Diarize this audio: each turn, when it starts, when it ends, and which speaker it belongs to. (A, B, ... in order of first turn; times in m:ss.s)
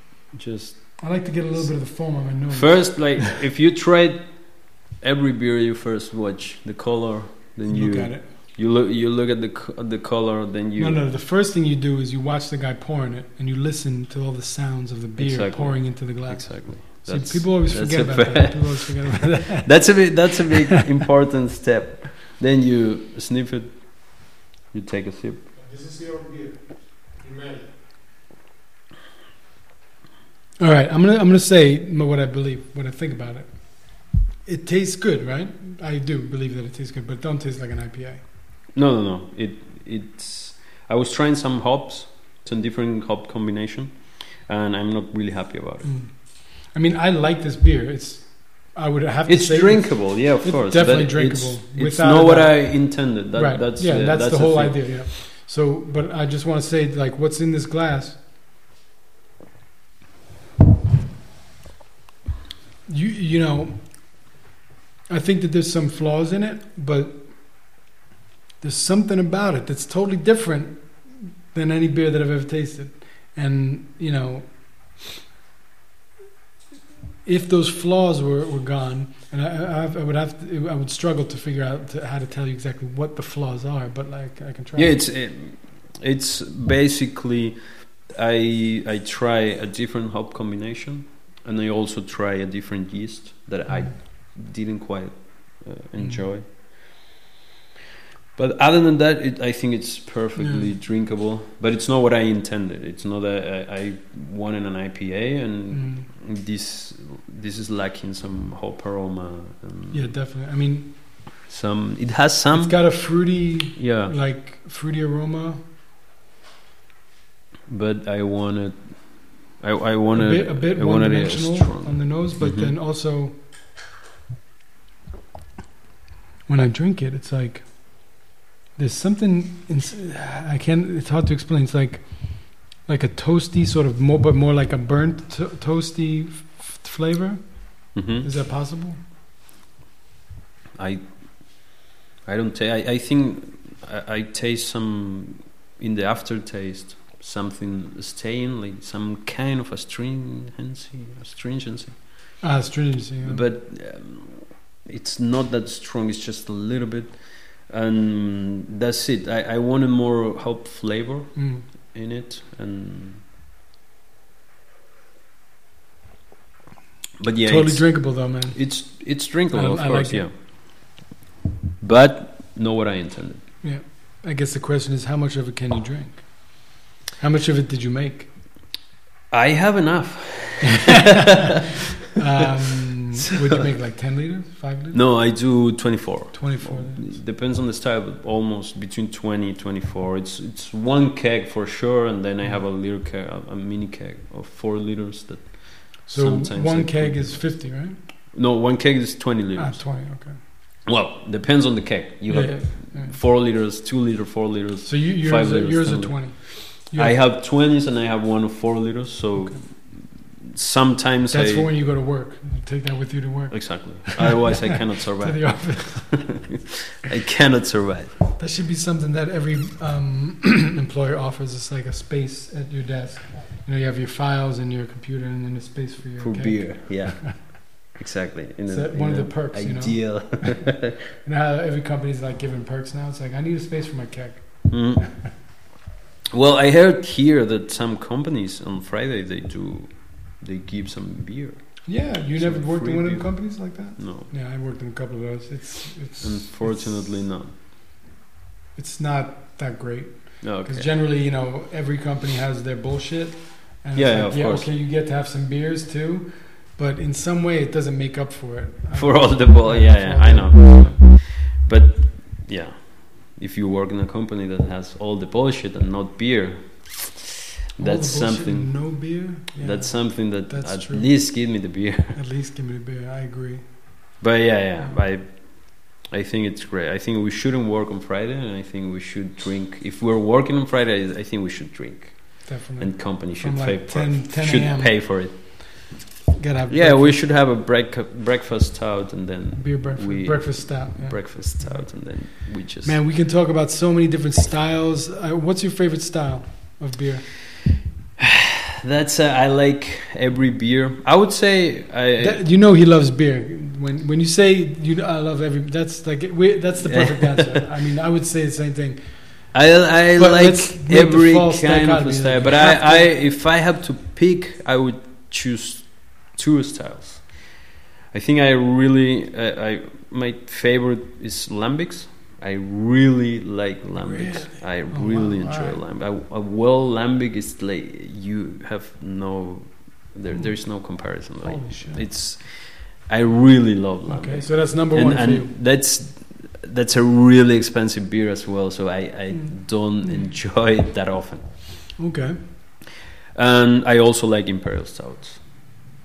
0:00.3-0:01.0 A
0:01.0-0:03.3 B
0:02.5-0:11.0 A
0:07.7-0:08.3 B
0:10.8-0:20.8 B
0:15.2-0:25.4 A
0:25.6-0:27.6 C
0:30.6-0:33.5 B
0:34.5-0:38.2 B
0:38.8-0:45.9 A
0:45.8-0:58.2 B
0:49.3-0:54.9 A
1:02.9-1:03.8 B
1:05.1-1:07.2 B
1:08.6-1:10.8 B
1:11.5-1:14.5 B
1:17.2-1:25.0 B
1:24.8-1:36.4 A
1:33.7-1:33.9 B
1:38.4-1:50.0 A
1:40.4-1:40.7 B
1:45.7-1:46.1 B
1:49.9-1:50.9 B
1:51.5-1:53.0 A
1:52.5-1:55.6 B
1:53.8-1:54.1 A
1:57.7-1:59.0 A
1:59.6-2:02.7 A
2:00.1-2:03.3 B
2:06.5-2:07.7 B
2:08.8-2:17.6 B
2:18.0-2:18.3 A
2:18.2-2:19.0 B
2:20.8-2:21.0 A
2:22.2-2:32.0 A
2:32.4-2:33.4 B
2:33.2-2:43.2 A
2:41.4-2:41.6 B
2:47.2-2:50.3 A
2:47.5-2:48.6 B
2:49.5-2:50.3 B
2:51.8-2:53.4 A
2:53.6-2:56.7 B
2:57.2-2:58.3 B
2:59.3-3:01.8 A
3:00.9-3:01.6 B
3:02.2-3:05.0 B
3:03.2-3:03.7 A
3:04.9-3:17.6 A
3:06.3-3:07.2 B
3:16.1-3:18.0 B
3:18.3-3:19.8 A
3:19.6-3:20.4 B
3:20.8-3:31.7 A
3:22.3-3:23.2 B
3:24.8-3:27.2 B
3:31.3-3:36.3 B
3:33.5-3:38.1 A
3:38.4-3:47.4 B
3:46.2-3:51.0 A
3:48.7-3:55.1 B
3:54.7-3:55.1 A
3:56.3-4:01.8 A
4:01.9-4:07.0 B
4:02.4-4:03.4 A
4:04.0-4:04.3 A
4:06.2-4:07.5 A
4:08.8-4:21.0 B
4:10.4-4:10.9 A
4:14.0-4:14.7 A
4:19.0-4:28.8 A
4:27.8-4:31.1 B
4:29.6-4:32.2 A
4:32.1-4:33.6 B
4:34.2-4:45.9 A
4:42.4-4:44.9 B
4:46.4-4:47.2 B
4:46.7-4:53.0 A
4:49.6-4:51.9 B
4:52.8-4:57.3 B
4:58.2-5:02.4 A
5:02.2-5:09.0 B
5:06.8-5:07.7 A
5:09.5-5:17.6 A
5:10.2-5:13.1 B
5:18.1-5:41.5 A
5:24.0-5:25.8 B
5:31.4-5:32.0 B
5:34.1-5:35.5 B
5:42.0-5:42.4 B
5:43.4-5:45.5 A